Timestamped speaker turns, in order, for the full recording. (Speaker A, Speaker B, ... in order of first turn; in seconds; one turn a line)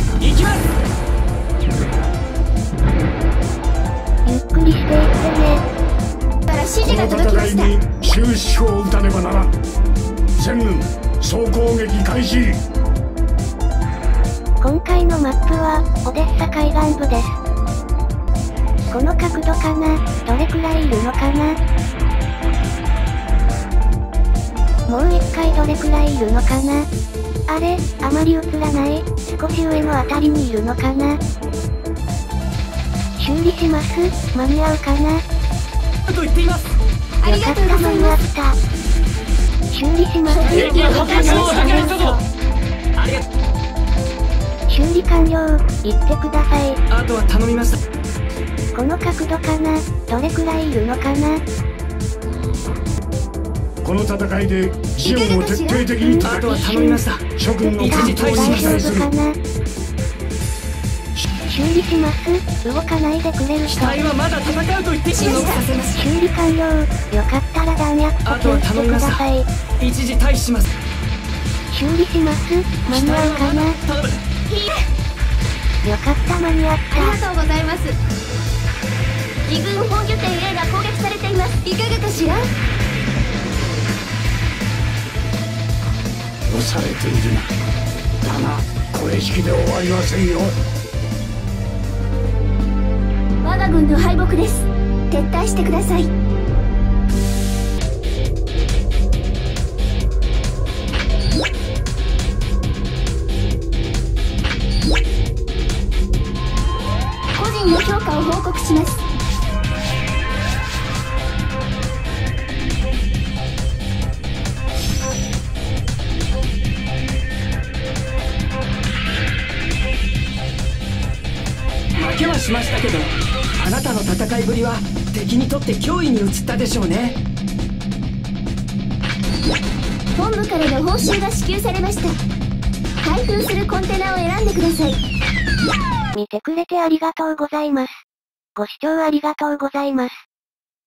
Speaker A: 0.2-0.6
Speaker B: 4.2-5.6
Speaker C: 6.5-7.7
Speaker D: 6.8-9.5
Speaker D: 10.4-12.6
Speaker B: 14.6-17.2
Speaker B: 18.9-21.6
Speaker B: 24.9-26.9
Speaker B: 27.5-31.2
Speaker B: 33.2-35.2
Speaker A: 36.1-36.6
Speaker C: 37.2-38.2
Speaker B: 37.2-38.6
Speaker B: 39.7-42.2
Speaker C: 40.2-42.0
Speaker A: 40.5-42.2
Speaker A: 43.0-43.2
Speaker B: 44.7-46.8
Speaker A: 46.9-47.8
Speaker B: 48.7-51.4
Speaker D: 53.8-56.5
Speaker C: 55.0-56.8
Speaker A: 56.2-57.2
Speaker D: 57.4-59.1
Speaker A: 57.8-58.9
Speaker B: 57.8-59.4
Speaker B: 61.5-64.0
Speaker A: 63.7-66.0
Speaker C: 65.1-65.7
Speaker B: 65.9-69.5
Speaker A: 68.2-69.2
Speaker A: 69.8-70.7
Speaker B: 71.7-73.8
Speaker A: 72.9-74.2
Speaker C: 74.5-74.8
Speaker B: 75.8-77.2
Speaker C: 76.9-77.9
Speaker C: 79.5-82.5
Speaker D: 86.5-87.5
Speaker D: 88.2-90.5
Speaker C: 93.4-96.1
Speaker C: 107.3-109.0
Speaker A: 121.9-127.2
Speaker C: 130.1-132.2
Speaker C: 133.0-135.0
Speaker B: 136.1-137.9
Speaker B: 138.6-140.1